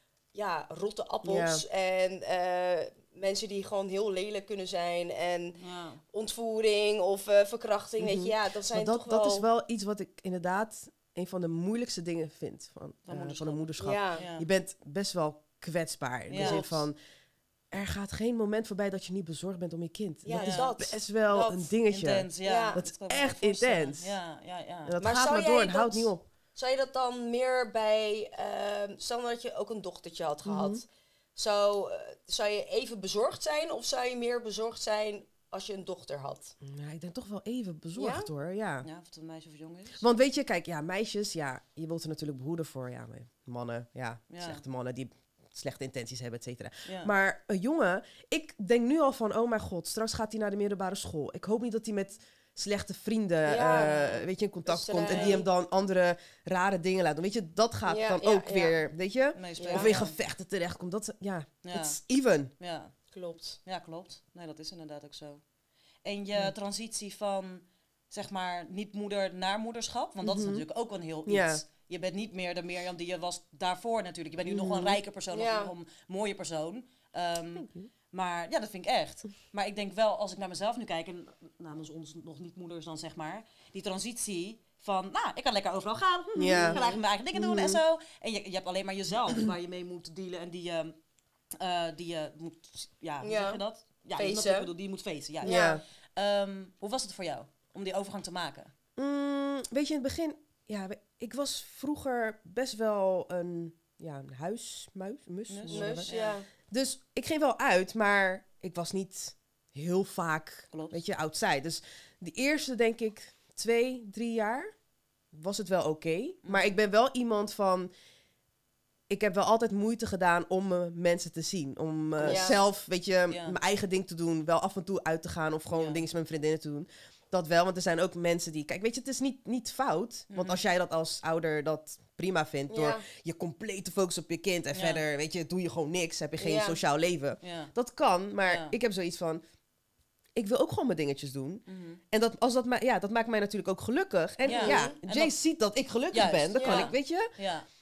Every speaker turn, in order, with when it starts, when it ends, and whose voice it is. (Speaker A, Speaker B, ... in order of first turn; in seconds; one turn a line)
Speaker A: 0.3-5.6
Speaker B: 1.2-1.6
Speaker C: 5.6-6.0
Speaker A: 6.1-9.5
Speaker B: 8.0-17.0
Speaker C: 13.1-14.5
Speaker A: 13.8-14.2
Speaker C: 16.3-16.8
Speaker A: 16.4-16.8
Speaker B: 17.7-24.2
Speaker A: 20.2-21.6
Speaker C: 20.4-20.8
Speaker C: 21.9-25.0
Speaker A: 22.4-22.8
Speaker B: 24.9-26.2
Speaker A: 25.0-36.5
Speaker B: 30.5-30.8
Speaker B: 36.6-38.9
Speaker A: 38.0-38.3
Speaker C: 38.8-40.1
Speaker B: 40.0-62.5
Speaker C: 44.3-44.6
Speaker C: 46.9-47.1
Speaker A: 53.5-55.5
Speaker C: 55.1-55.5
Speaker A: 57.9-58.8
Speaker C: 59.4-60.2
Speaker A: 59.6-60.0
Speaker C: 61.6-62.0
Speaker C: 62.6-62.9
Speaker A: 63.1-63.6
Speaker C: 63.7-65.4
Speaker C: 66.0-91.0
Speaker B: 70.2-70.7
Speaker B: 71.3-71.6
Speaker B: 74.5-75.0
Speaker A: 75.3-75.7
Speaker B: 77.6-77.9
Speaker B: 86.3-87.8
Speaker A: 86.5-87.0
Speaker C: 91.6-98.7
Speaker A: 93.2-93.6
Speaker A: 94.2-94.7
Speaker A: 95.4-95.8
Speaker B: 95.4-95.8
Speaker B: 99.0-106.1
Speaker C: 105.5-106.4
Speaker A: 105.7-106.5
Speaker B: 106.7-114.7
Speaker C: 110.7-111.0
Speaker B: 115.3-117.9
Speaker C: 116.5-116.8
Speaker B: 119.1-139.4
Speaker A: 122.2-122.6
Speaker C: 123.3-123.6
Speaker C: 125.7-126.0
Speaker C: 130.3-130.6
Speaker A: 132.7-133.1
Speaker C: 134.7-135.0
Speaker A: 136.4-136.8
Speaker C: 137.4-137.7
Speaker C: 138.5-138.8
Speaker B: 140.3-147.3
Speaker C: 141.7-142.0
Speaker C: 144.4-145.3
Speaker A: 144.5-145.0
Speaker C: 146.1-147.7
Speaker A: 146.6-146.9